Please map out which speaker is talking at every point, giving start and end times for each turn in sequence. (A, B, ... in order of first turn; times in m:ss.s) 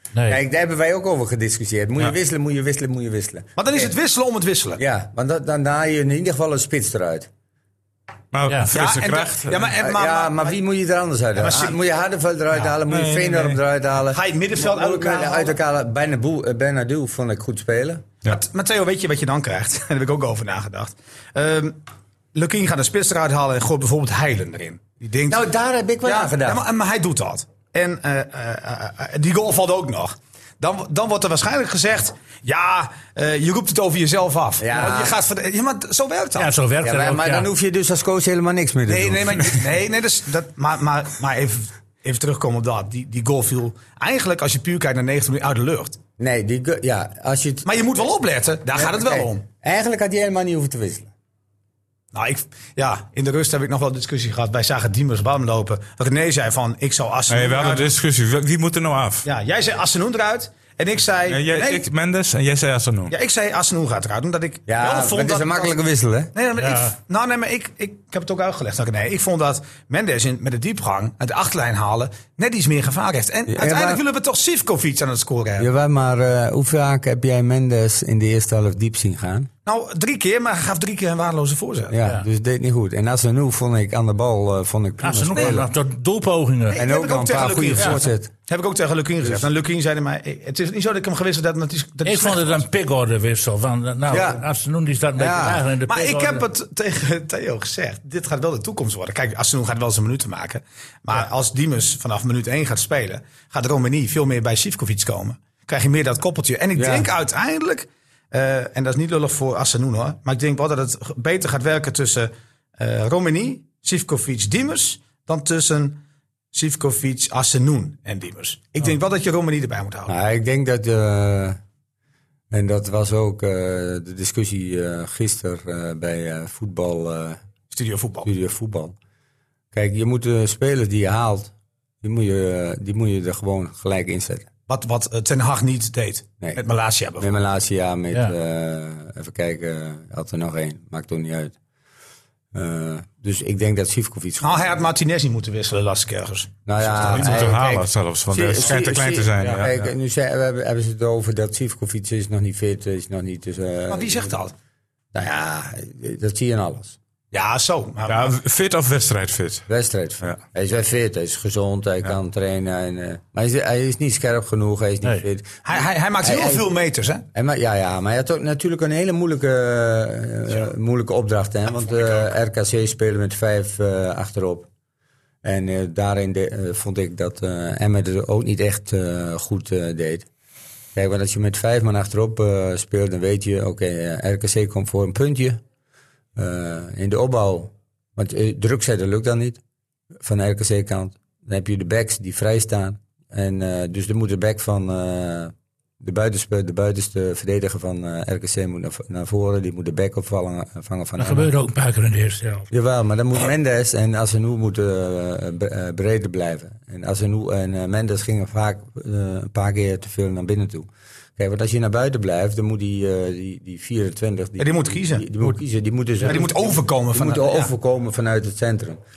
0:00.1-0:00.4 A
0:00.3-0:03.9 B
0:03.6-0:04.8 C
0:04.8-0:07.3 B
0:08.3-0:09.7 D
0:08.5-0:08.7 A
0:08.7-0:10.6 C
0:09.8-0:18.0 B
0:11.4-0:11.8 C
0:12.9-0:13.5 D
0:14.1-0:15.6 C
0:18.2-0:21.8 C
0:22.3-0:25.4 C
0:25.3-0:26.6 B
0:26.0-0:36.5 C
0:34.6-0:35.2 B
0:36.4-0:37.5 A
0:36.8-0:39.6 B
0:38.9-0:46.0 C
0:46.2-0:47.7 B
0:47.6-0:49.4 C
0:48.7-0:51.1 B
0:52.1-0:57.9 C
0:57.3-0:59.3 D
0:59.2-1:01.8 C
1:01.3-1:03.1 D
1:03.1-1:05.7 C
1:04.7-1:06.3 B
1:06.3-1:15.7 C
1:06.6-1:06.9 A
1:13.5-1:14.0 B
1:15.6-1:19.5 B
1:19.6-1:21.9 C
1:21.9-1:25.7 B
1:25.0-1:26.8 A
1:25.3-1:25.6 C
1:26.7-1:32.6 C
1:26.7-1:28.3 B
1:32.0-1:36.4 A
1:34.1-1:34.4 B
1:35.2-1:35.6 B
1:35.9-1:56.0 C
1:46.7-1:47.1 B
1:56.5-2:00.1 C
2:00.1-2:01.6 B
2:02.5-2:07.4 B
2:07.7-2:08.3 C
2:08.2-2:08.9 B
2:09.7-2:14.5 B
2:14.7-2:17.3 C
2:17.2-2:21.6 B
2:22.5-2:24.7 B
2:24.4-2:27.6 C
2:26.6-2:34.3 B
2:27.0-2:29.7 D
2:29.4-2:29.7 C
2:33.9-2:34.5 C
2:35.1-2:37.0 B
2:37.3-2:38.3 C
2:38.1-2:39.6 D
2:39.7-2:45.6 B
2:45.6-2:47.2 C
2:46.2-2:46.6 B
2:47.3-2:54.7 B
2:55.4-3:00.2 B
3:00.9-3:05.6 B
3:06.4-3:09.6 B
3:10.2-3:21.5 B
3:21.2-3:22.6 A
3:22.7-3:39.0 B
3:34.6-3:35.4 C
3:36.2-3:37.7 C